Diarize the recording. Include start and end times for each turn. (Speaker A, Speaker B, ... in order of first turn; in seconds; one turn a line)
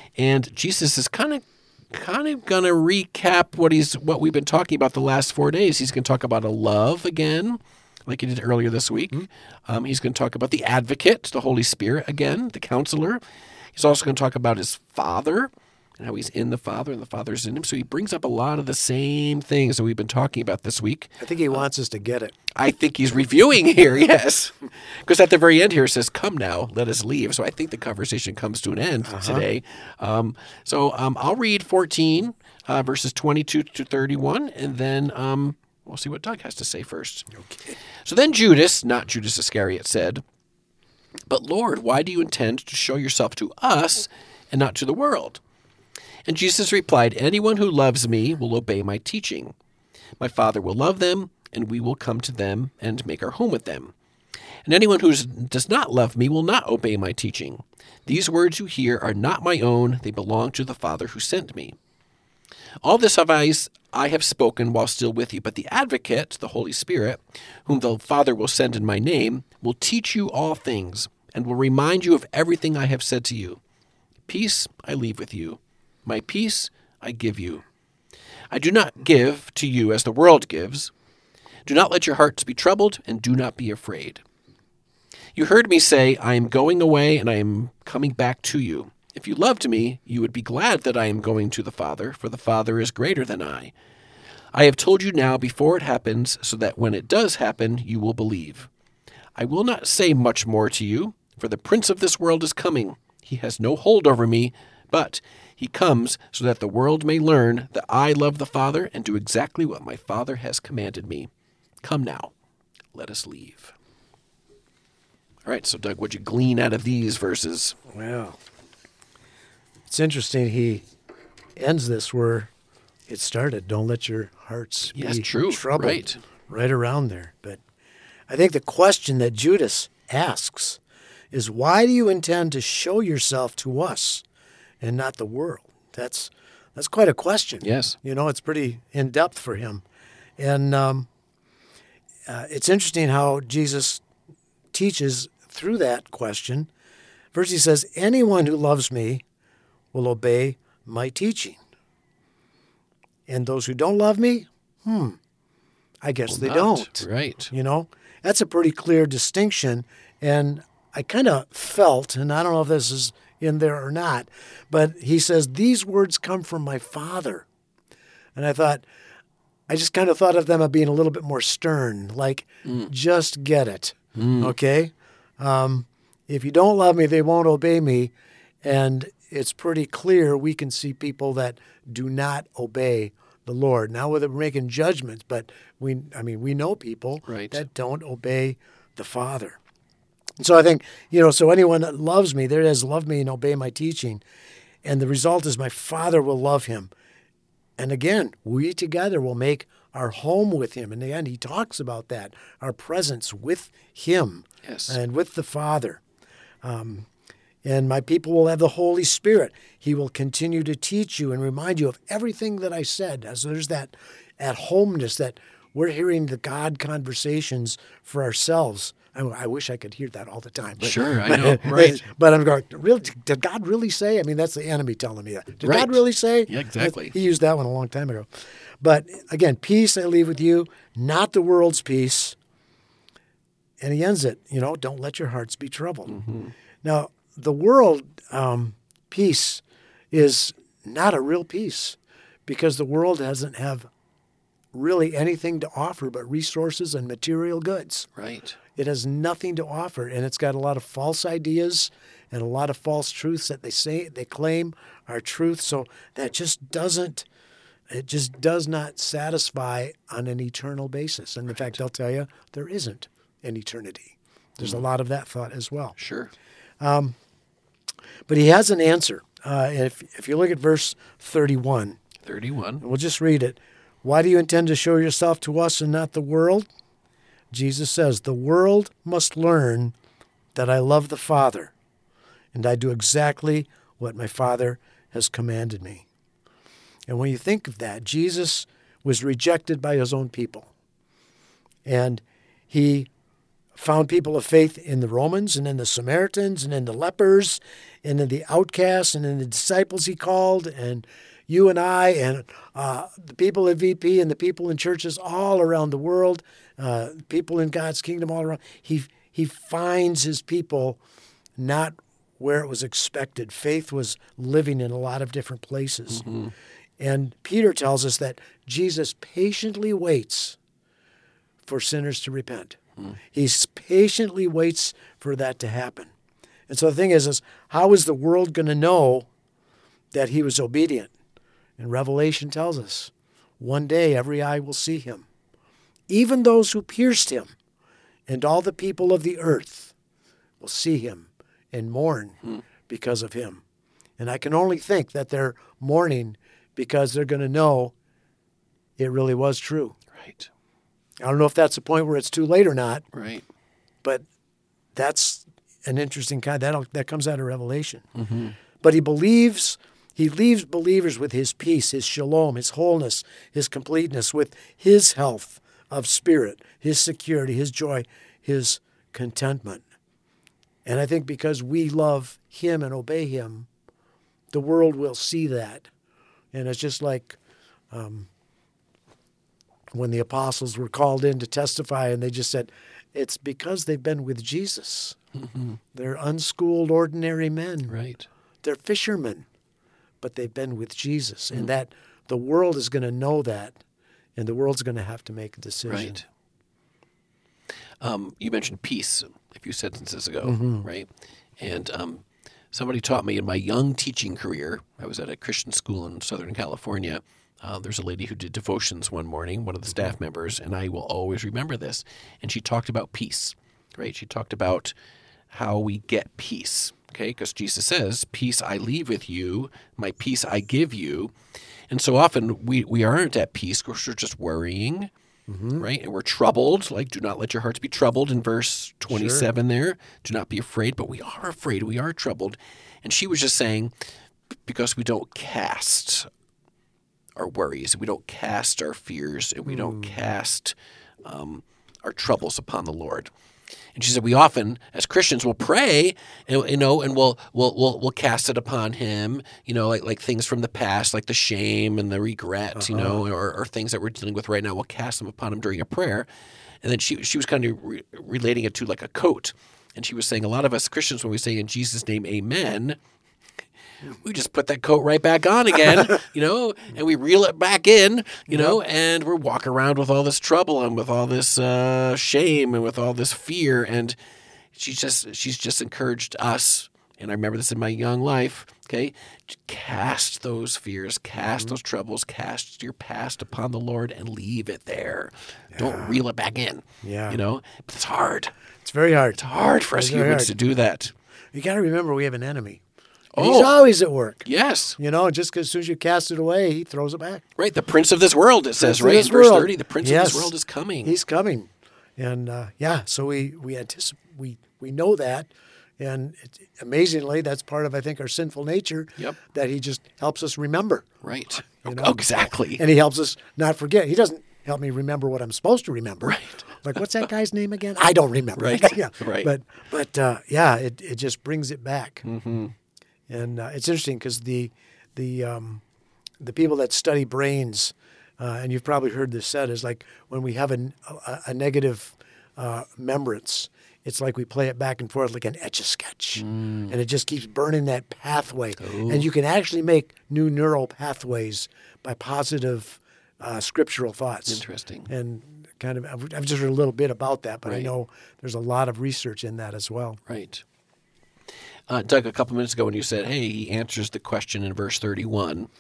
Speaker A: 0.2-13.2
Speaker A: 13.7-21.6
Speaker B: 21.2-22.4
Speaker A: 22.5-37.3
Speaker B: 29.0-29.4
Speaker B: 37.3-37.8
Speaker A: 38.0-40.2
Speaker A: 41.3-45.4
Speaker A: 46.2-49.5
Speaker A: 50.2-53.9
Speaker A: 54.6-61.8
Speaker A: 62.8-73.6
Speaker A: 74.3-77.6
Speaker A: 78.5-80.9
Speaker A: 81.7-84.2
Speaker A: 85.3-93.7
Speaker A: 94.5-98.7
Speaker A: 99.4-111.3
Speaker A: 111.8-112.3
Speaker A: 112.9-113.7
Speaker A: 115.5-117.8
Speaker B: 117.9-118.4
Speaker B: 119.9-120.8
Speaker B: 121.5-122.5
Speaker B: 123.1-127.6
Speaker A: 124.9-126.2
Speaker B: 128.3-130.8
Speaker B: 131.3-134.2
Speaker B: 134.8-139.8
Speaker A: 137.6-137.9
Speaker B: 140.4-141.1
Speaker B: 142.3-144.0
Speaker B: 144.7-146.7
Speaker B: 147.3-149.2
Speaker B: 149.9-151.6
Speaker B: 153.3-155.2
Speaker B: 156.0-167.4
Speaker A: 156.3-157.5
Speaker B: 168.3-168.8
Speaker B: 169.7-189.6
Speaker A: 174.2-174.5
Speaker A: 187.3-187.6
Speaker B: 190.4-194.2
Speaker B: 194.8-196.9
Speaker B: 197.8-206.0
Speaker A: 204.6-205.0
Speaker B: 206.6-207.1
Speaker B: 207.6-228.3
Speaker A: 220.8-222.0
Speaker A: 225.6-227.1
Speaker B: 228.8-232.3
Speaker B: 233.8-236.2
Speaker A: 236.1-236.5
Speaker B: 236.8-243.9
Speaker B: 244.7-248.1
Speaker A: 248.2-248.6
Speaker B: 248.8-257.2
Speaker B: 257.9-266.0
Speaker A: 266.0-266.3
Speaker B: 266.8-267.1
Speaker B: 268.3-272.0
Speaker A: 272.2-272.8
Speaker B: 272.8-276.7
Speaker B: 277.5-279.9
Speaker B: 280.5-281.7
Speaker B: 282.5-286.1
Speaker B: 287.1-290.7
Speaker B: 291.8-293.1
Speaker B: 293.7-311.0
Speaker B: 311.6-316.2
Speaker A: 316.1-316.5
Speaker B: 317.0-320.6
Speaker B: 321.6-322.8
Speaker B: 323.3-326.1
Speaker B: 326.7-329.3
Speaker B: 330.1-331.1
Speaker B: 331.8-335.2
Speaker B: 336.1-337.5
Speaker B: 338.3-339.9
Speaker B: 340.6-343.6
Speaker B: 344.2-347.9
Speaker B: 349.0-349.9
Speaker A: 350.2-350.5
Speaker B: 351.2-353.0
Speaker A: 353.1-353.4
Speaker B: 354.9-358.0
Speaker A: 358.1-358.6
Speaker B: 358.8-369.8
Speaker B: 370.8-373.7
Speaker B: 374.5-375.9
Speaker B: 376.5-377.4
Speaker B: 377.9-378.3
Speaker B: 379.9-385.1
Speaker A: 385.4-385.8
Speaker B: 385.9-388.0
Speaker A: 387.9-388.2
Speaker B: 388.6-389.4
Speaker B: 390.2-393.8
Speaker B: 394.4-396.2
Speaker A: 395.9-396.2
Speaker A: 398.0-401.1
Speaker B: 400.4-400.9
Speaker A: 401.6-414.9
Speaker A: 415.5-421.3
Speaker A: 421.9-425.1
Speaker B: 425.5-425.8
Speaker A: 425.8-433.9
Speaker B: 429.1-429.5
Speaker A: 434.7-436.3
Speaker A: 437.4-443.3
Speaker B: 439.7-440.1
Speaker A: 443.9-456.3
Speaker B: 452.8-453.2
Speaker A: 456.8-463.0
Speaker A: 464.1-474.1
Speaker B: 468.5-468.8
Speaker A: 474.7-488.5
Speaker B: 485.7-486.2
Speaker B: 487.0-487.4
Speaker B: 488.8-489.4
Speaker A: 489.4-491.1
Speaker B: 489.9-490.5
Speaker B: 491.5-492.8
Speaker A: 493.4-493.8
Speaker B: 493.4-494.5
Speaker A: 494.4-494.9
Speaker B: 495.0-497.4
Speaker A: 497.6-501.2
Speaker B: 498.8-511.1
Speaker A: 511.2-512.8
Speaker B: 511.8-522.2
Speaker A: 516.2-516.6
Speaker A: 518.5-519.5
Speaker A: 522.2-522.7
Speaker B: 523.3-525.8
Speaker B: 526.4-550.2
Speaker A: 536.4-536.9
Speaker A: 538.8-539.3
Speaker A: 544.5-545.1
Speaker A: 547.6-547.9
Speaker A: 550.3-550.6
Speaker A: 551.9-555.7